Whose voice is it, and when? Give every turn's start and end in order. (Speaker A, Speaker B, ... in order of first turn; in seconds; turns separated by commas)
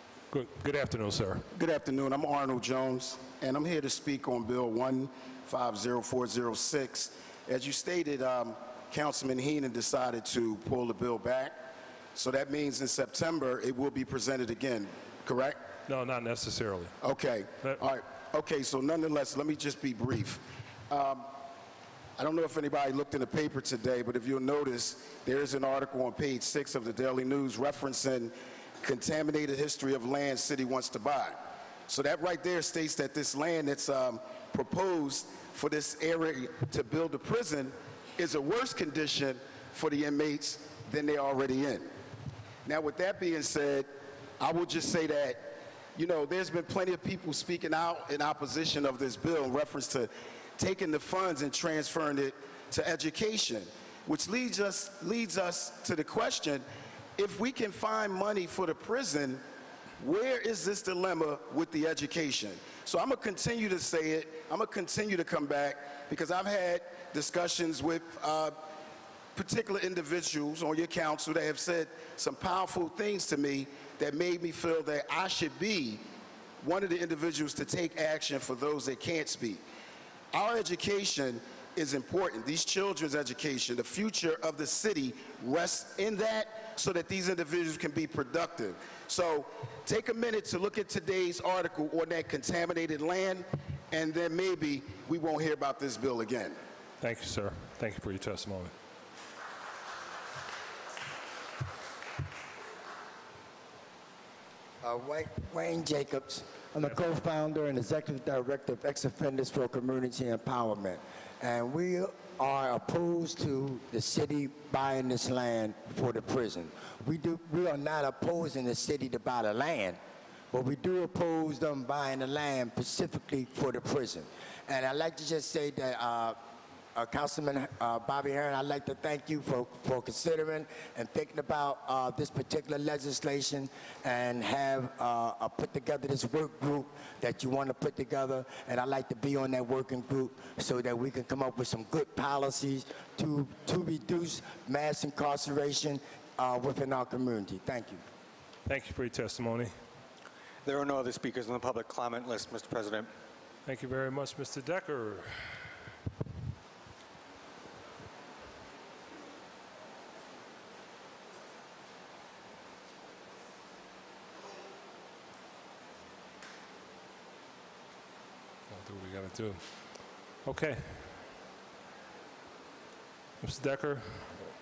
Speaker A: 0.3-1.5, Speaker B: 1.5-11.6, Speaker B: 12.1-15.6, Speaker A: 15.9-16.9, Speaker B: 17.0-21.3, Speaker B: 22.2-41.9, Speaker B: 42.6-56.6, Speaker B: 57.2-59.4, Speaker B: 60.0-68.5, Speaker B: 69.3-76.0, Speaker B: 76.6-79.6, Speaker B: 80.3-96.6, Speaker A: 97.0-98.7, Speaker C: 104.8-120.0, Speaker C: 120.5-126.4, Speaker C: 126.9-148.0, Speaker A: 148.7-149.7, Speaker D: 150.6-153.1, Speaker A: 153.7-155.3, Speaker A: 168.7-169.6, Speaker A: 170.4-171.0, Speaker A: 173.4-174.3